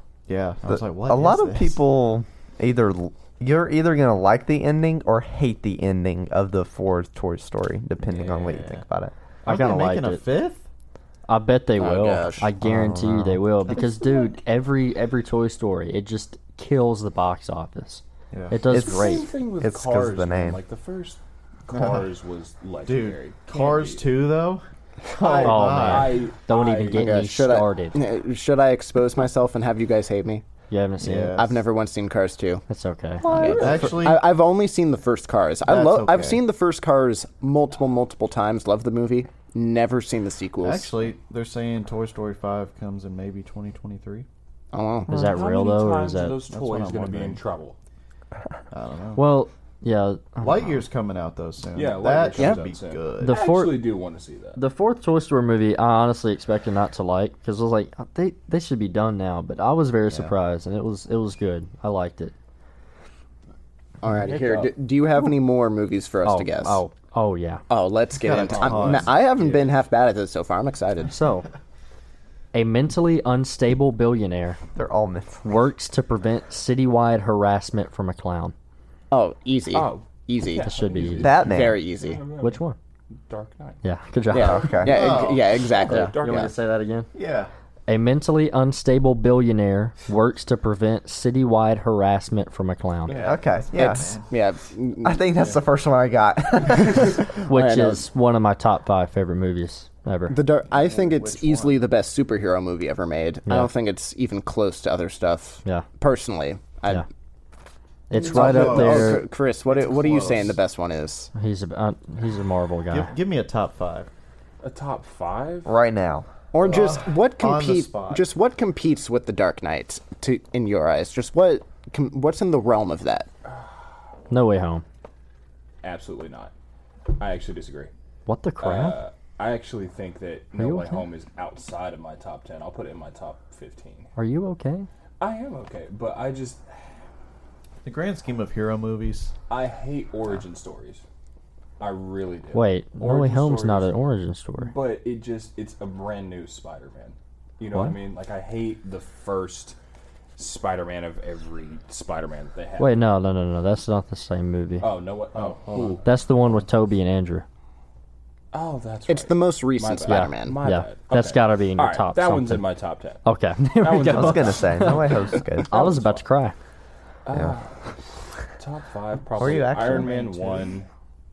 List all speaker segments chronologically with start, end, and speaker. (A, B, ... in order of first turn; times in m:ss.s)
0:00.3-0:01.8 A
0:00.7-0:09.1 B
0:08.1-0:08.8 A
0:09.4-0:10.6 A
0:09.5-0:10.2 C
0:11.3-0:19.3 C
0:11.8-0:12.5 D
0:12.6-0:13.4 B
0:18.3-0:18.7 A
0:18.7-0:20.6 B
0:18.7-0:24.1 E
0:21.7-0:22.1 A
0:22.8-0:26.3 A
0:25.2-0:27.1 E
0:25.4-0:28.0 C
0:26.9-0:30.4 D
0:30.7-0:31.4 C
0:31.0-0:31.6 A
0:31.4-0:32.6 D
0:32.7-0:33.3 C
0:33.2-0:33.9 B
0:33.3-0:40.9 D
0:33.4-0:33.8 E
0:33.5-0:34.4 A
0:35.7-0:36.4 A
0:40.6-0:44.3 A
0:44.7-0:45.1 D
0:45.1-0:46.4 C
0:45.1-0:47.8 E
0:46.5-0:47.4 A
0:48.7-0:49.3 A
0:49.2-0:50.8 C
0:50.4-0:53.4 A
0:51.7-0:54.6 E
0:53.2-0:54.0 C
0:54.6-1:02.3 C
1:04.0-1:06.8 D
1:04.2-1:04.7 E
1:06.2-1:07.6 C
1:07.7-1:11.1 D
1:08.1-1:09.2 A
1:08.5-1:09.8 E
1:11.1-1:11.5 C
1:12.5-1:14.6 C
1:14.8-1:15.4 B
1:15.4-1:18.5 C
1:19.1-1:20.7 D
1:19.7-1:22.6 E
1:20.6-1:21.3 C
1:21.2-1:21.8 B
1:21.3-1:22.2 D
1:22.4-1:22.8 C
1:23.3-1:23.8 E
1:23.8-1:24.7 C
1:24.3-1:26.5 D
1:24.4-1:25.0 B
1:24.8-1:26.5 E
1:24.9-1:25.5 A
1:25.9-1:27.1 C
1:27.1-1:27.5 A
1:27.9-1:33.2 C
1:33.1-1:33.4 E
1:33.1-1:34.3 A
1:33.2-1:34.1 B
1:33.8-1:35.2 D
1:35.0-1:37.2 B
1:36.9-1:38.1 D
1:37.5-1:40.4 C
1:40.3-1:47.0 D
1:40.7-1:41.8 A
1:48.1-1:49.2 C
1:48.1-1:51.3 D
1:48.2-1:50.6 A
1:51.4-1:53.1 C
1:52.9-1:54.1 A
1:54.6-1:55.7 E
1:55.6-1:56.3 B
1:56.5-2:03.3 D
1:56.6-1:58.2 A
2:03.5-2:03.7 E
2:04.3-2:04.8 C
2:05.8-2:06.5 E
2:07.1-2:07.9 E
2:08.3-2:09.0 C
2:08.6-2:14.1 E
2:10.6-2:11.0 C
2:14.2-2:14.9 C
2:15.2-2:16.9 E
2:17.8-2:19.3 A
2:19.5-2:21.0 E
2:21.8-2:23.9 E
2:22.5-2:24.7 C
2:24.6-2:29.8 E
2:30.4-2:33.0 E
2:32.8-2:34.9 C
2:34.8-2:36.0 E
2:35.3-2:36.0 A
2:36.0-2:37.5 C
2:38.5-2:43.2 E
2:39.1-2:40.6 D
2:40.1-2:42.7 C
2:43.2-2:46.6 C
2:43.8-2:46.2 E
2:44.0-2:45.7 B
2:47.3-2:47.8 E
2:48.6-2:50.9 E
2:49.4-2:50.1 B
2:49.4-2:50.8 A